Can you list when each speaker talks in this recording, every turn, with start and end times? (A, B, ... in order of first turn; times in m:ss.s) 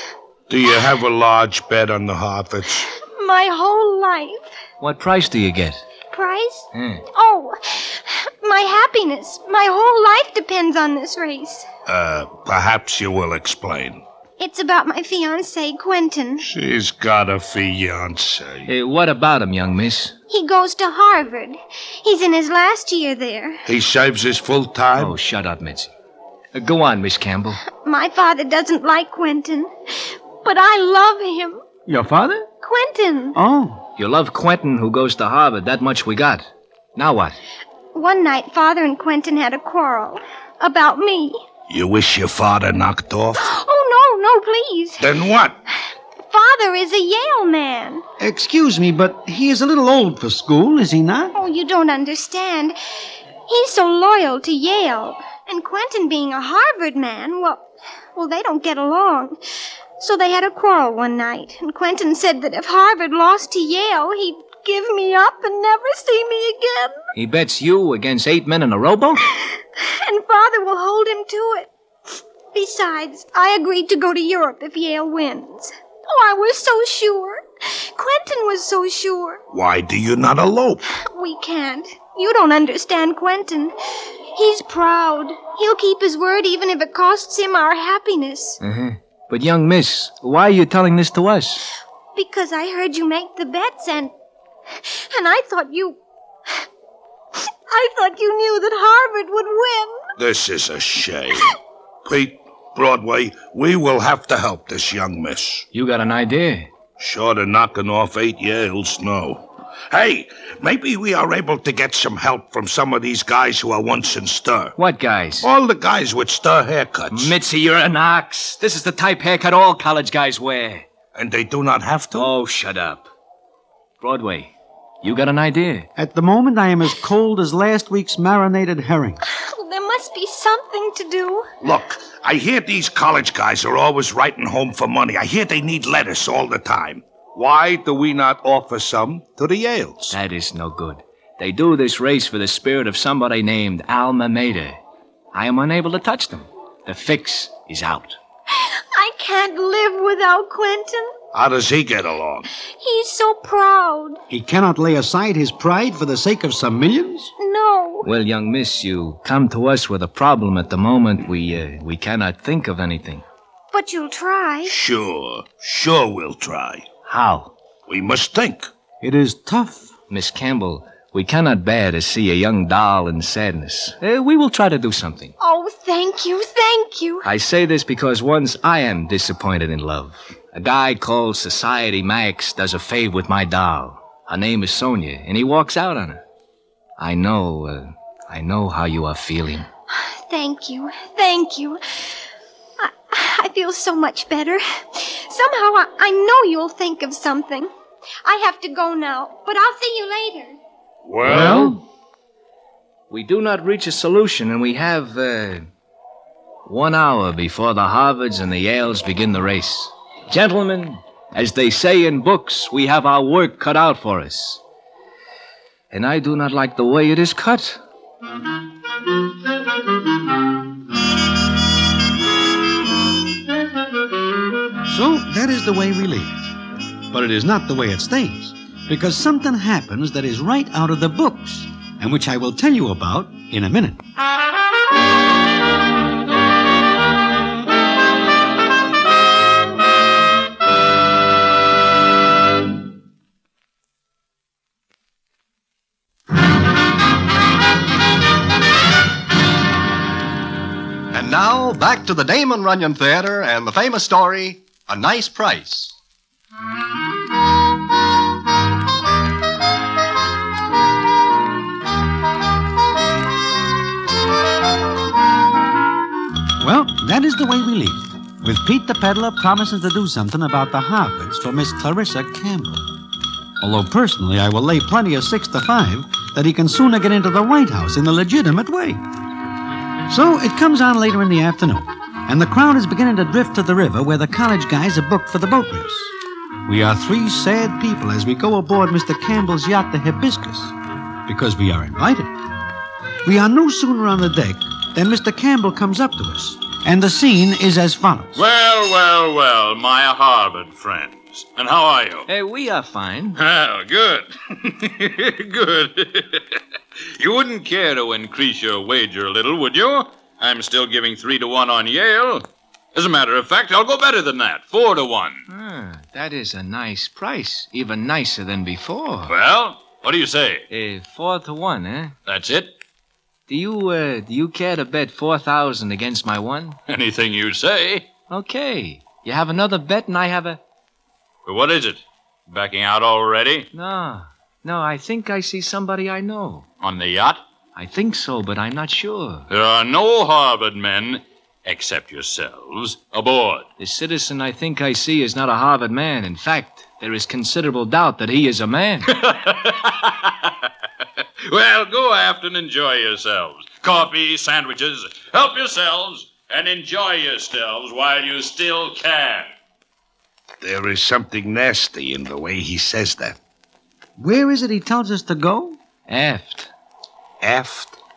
0:00.5-0:02.9 A
0:03.0-0:04.5 B
0:04.8-0:05.8 C
0:06.1-0:11.7 B
0:06.7-0:07.0 C
0:11.9-0:14.0 A
0:14.4-0:16.5 B
0:16.4-0:18.7 A
0:18.7-0:20.2 C
0:20.3-0:23.6 B
0:23.7-0:25.2 A
0:25.0-0:25.9 C
0:26.5-0:27.6 C
0:27.7-0:31.6 B
0:31.9-0:32.5 D
0:32.6-0:33.4 B
0:33.4-0:33.8 D
0:34.0-0:37.4 C
0:37.9-0:41.4 B
0:41.7-0:43.4 A
0:43.4-0:45.1 B
0:45.0-0:45.6 A
0:46.3-0:48.0 B
0:48.2-0:51.4 D
0:51.3-0:52.8 B
0:53.5-0:59.4 B
1:00.0-1:07.0 B
1:07.2-1:09.3 C
1:09.4-1:11.7 B
1:12.5-1:19.4 B
1:19.5-1:20.9 A
1:21.0-1:23.7 B
1:24.4-1:28.6 B
1:28.6-1:31.7 C
1:32.2-1:34.1 B
1:34.9-1:36.6 B
1:37.7-1:40.0 B
1:40.2-1:41.5 A
1:42.0-1:45.7 A
1:45.7-1:46.7 C
1:47.0-1:54.7 A
1:54.8-1:55.5 C
1:55.4-1:57.3 A
1:57.1-2:00.9 C
2:01.2-2:02.3 A
2:02.1-2:03.1 C
2:04.0-2:05.9 C
2:06.0-2:09.2 D
2:09.3-2:11.5 B
2:11.6-2:20.2 A
2:20.1-2:24.8 C
2:25.3-2:28.2 C
2:28.6-2:31.1 B
2:31.3-2:32.5 A
2:32.8-2:34.2 B
2:34.3-2:37.3 D
2:37.4-2:38.1 B
2:38.0-2:43.2 C
2:43.7-2:44.8 B
2:44.7-2:46.9 A
2:47.1-2:47.5 C
2:47.9-2:48.7 A
2:49.0-2:49.9 D
2:50.1-2:55.3 C
2:55.4-2:57.3 B
2:57.2-3:06.2 C
3:07.0-3:09.7 C
3:09.9-3:11.8 B
3:12.8-3:17.7 B
3:18.2-3:20.6 B
3:21.0-3:21.8 A
3:21.2-3:21.8 D
3:23.1-3:25.7 C
3:26.7-3:34.6 C
3:35.9-3:37.8 C
3:44.8-3:46.5 D
3:47.1-3:54.0 D
4:11.1-4:16.0 E
4:26.6-4:32.9 D
4:33.6-4:39.0 D
4:40.1-4:46.1 D
4:46.7-4:50.8 D
4:51.3-4:52.3 D
4:53.2-4:58.4 D
4:58.4-5:02.3 F
5:02.3-5:03.4 C
5:03.4-5:06.6 F
5:07.2-5:15.5 F
5:15.5-5:19.3 C
5:19.3-5:20.7 F
5:20.7-5:22.2 C
5:22.3-5:22.7 F
5:23.5-5:26.8 C
5:26.9-5:28.1 F
5:28.3-5:30.6 C
5:31.5-5:33.7 F
5:33.7-5:36.7 C
5:36.8-5:37.4 F
5:37.8-5:39.5 C
5:39.5-5:43.7 F
5:43.8-5:49.1 C
5:49.1-5:50.7 F
5:51.4-5:59.5 F
6:00.6-6:03.4 A
6:04.2-6:05.8 D
6:06.1-6:06.7 C
6:07.4-6:08.0 A